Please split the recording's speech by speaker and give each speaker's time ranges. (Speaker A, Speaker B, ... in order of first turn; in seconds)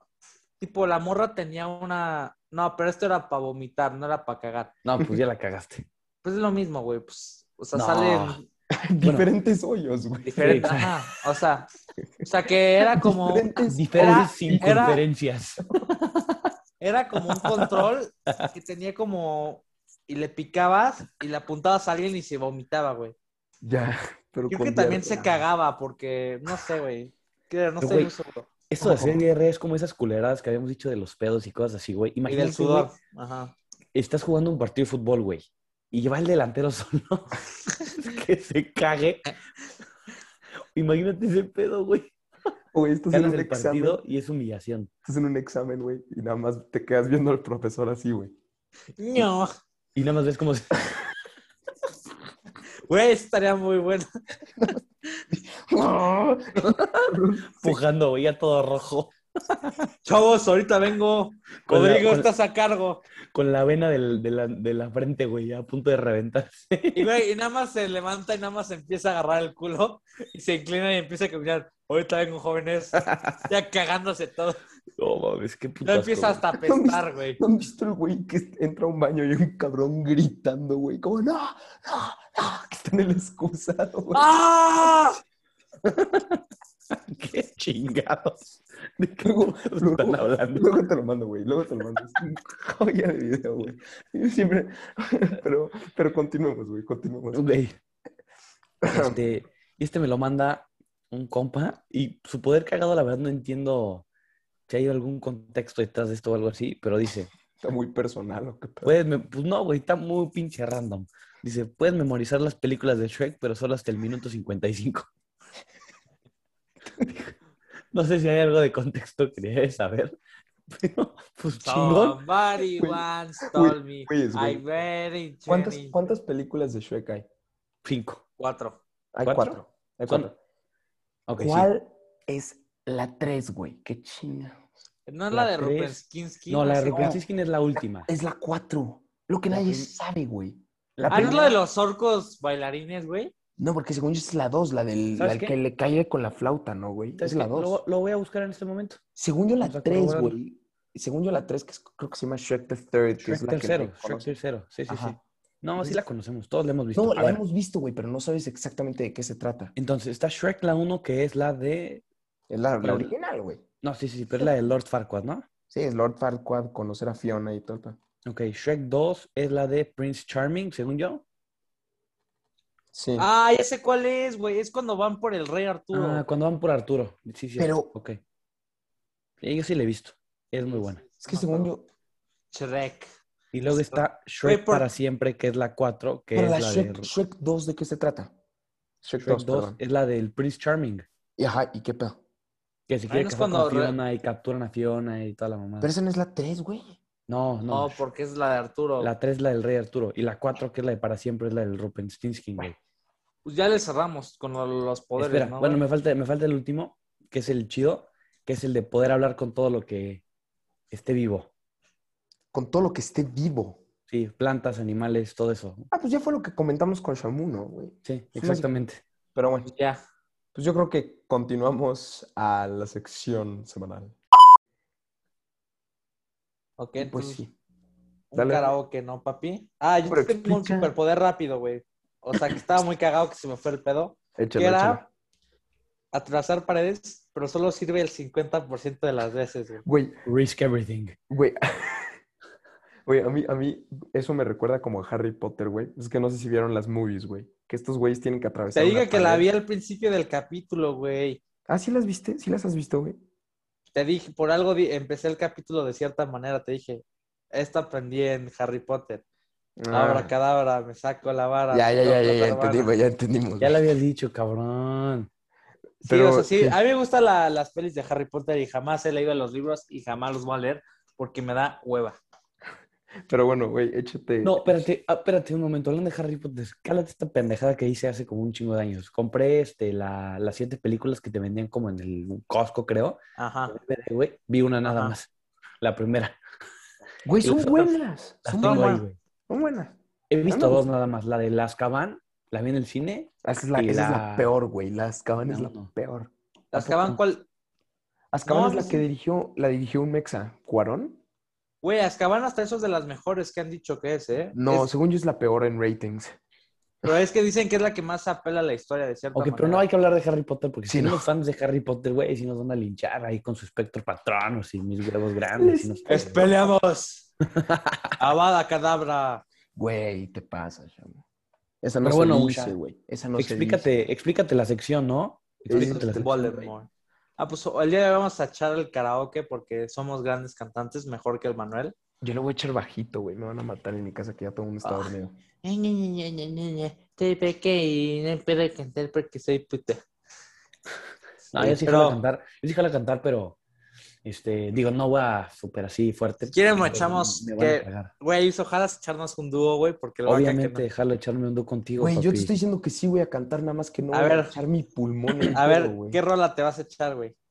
Speaker A: 0.6-4.7, 6.2-8.4, 10.3-11.7, 12.2-15.0, 16.8-23.1, 24.5-28.5, 32.3-33.5, 49.0-49.5, 52.9-54.1, 60.0-63.0, 67.0-74.6, 75.8-77.4, 84.1-85.2, 121.6-126.0, 128.4-128.8, 135.1-137.2, 141.1-143.3, 173.2-176.2, 180.7-181.7, 182.5-183.1, 183.7-184.9, 193.1-193.9, 197.7-199.1, 203.4-205.8, 219.7-220.0, 226.8-227.4, 228.3-235.0, 236.1-239.8, 248.7-251.4, 253.9-259.2, 259.9-262.9, 266.1-272.2, 283.4-283.7, 284.9-285.1, 288.6-289.0, 296.7-297.4, 298.4-299.0, 301.8-304.9, 307.0-309.9, 316.1-317.3, 318.2-319.4, 325.7-331.9, 334.8-335.1, 335.6-340.0, 341.6-342.2, 346.5-350.9, 354.1-354.6, 355.5-357.3
Speaker B: 4.8-5.9, 7.7-8.4, 9.0-9.3, 10.2-10.9, 13.7-16.5, 17.3-18.5, 27.8-28.1, 28.7-32.9, 33.9-39.3, 40.7-42.1, 43.1-44.9, 49.9-50.8, 57.6-59.7, 61.7-62.3, 63.3-67.1, 75.0-76.4, 85.8-86.4, 87.0-90.7, 97.3-97.8, 98.9-104.0, 104.7-107.3, 108.8-115.1, 117.0-117.3, 117.9-120.2, 120.7-122.2, 127.8-128.2, 129.2-130.3, 131.3-131.7, 135.3-138.1, 139.5-139.9, 141.0-141.5, 145.2-145.5, 147.2-149.0, 149.6-150.3, 153.2-157.4, 159.8-162.0, 162.8-163.1, 163.8-165.4, 168.2-171.2, 175.9-178.2, 179.4-181.0, 183.5-187.1, 189.2-191.1, 192.9-195.9, 197.3-198.0, 199.0-202.8, 205.2-210.2, 210.9-211.5, 214.1-215.9, 218.0-219.0, 240.2-241.2, 263.6-265.3, 274.4-285.3, 285.8-286.3, 287.4-289.2, 290.3-294.5, 295.5-295.9, 296.7-297.2, 309.3-316.3, 317.5-318.2, 322.0-322.8, 323.4-326.3, 341.5-343.6, 344.2-348.1, 350.2-352.5
Speaker C: 8.7-10.8, 12.9-15.0, 23.6-25.4, 28.8-29.2, 42.7-44.0, 45.0-48.4, 55.3-57.8, 76.5-84.2, 89.2-97.4, 98.8-99.2, 107.6-108.9, 122.7-124.6, 125.5-127.2, 129.1-130.3, 131.4-134.6, 136.9-137.2, 138.1-141.5, 143.6-147.8, 149.2-154.3, 154.9-155.2, 156.9-159.7, 162.5-163.6, 165.7-168.0, 172.9-173.3, 177.6-177.9, 181.2-181.8, 186.3-188.3, 189.0-189.8, 191.4-192.2, 195.8-196.9, 212.5-213.8, 215.9-218.7, 219.3-219.7, 220.5-224.2, 227.0-227.5, 228.3-228.8, 230.0-230.9, 234.4-235.1, 239.8-240.2, 241.3-242.2, 243.1-249.4, 251.7-253.2, 259.8-260.3, 261.7-263.8, 266.0-266.8, 273.3-274.7, 287.2-289.9, 290.5-290.8, 293.4-296.3, 298.3-301.2, 304.5-306.4, 310.9-311.3, 315.6-316.7, 319.8-321.2, 321.8-323.9, 325.6-326.7, 332.2-335.4, 352.0-356.2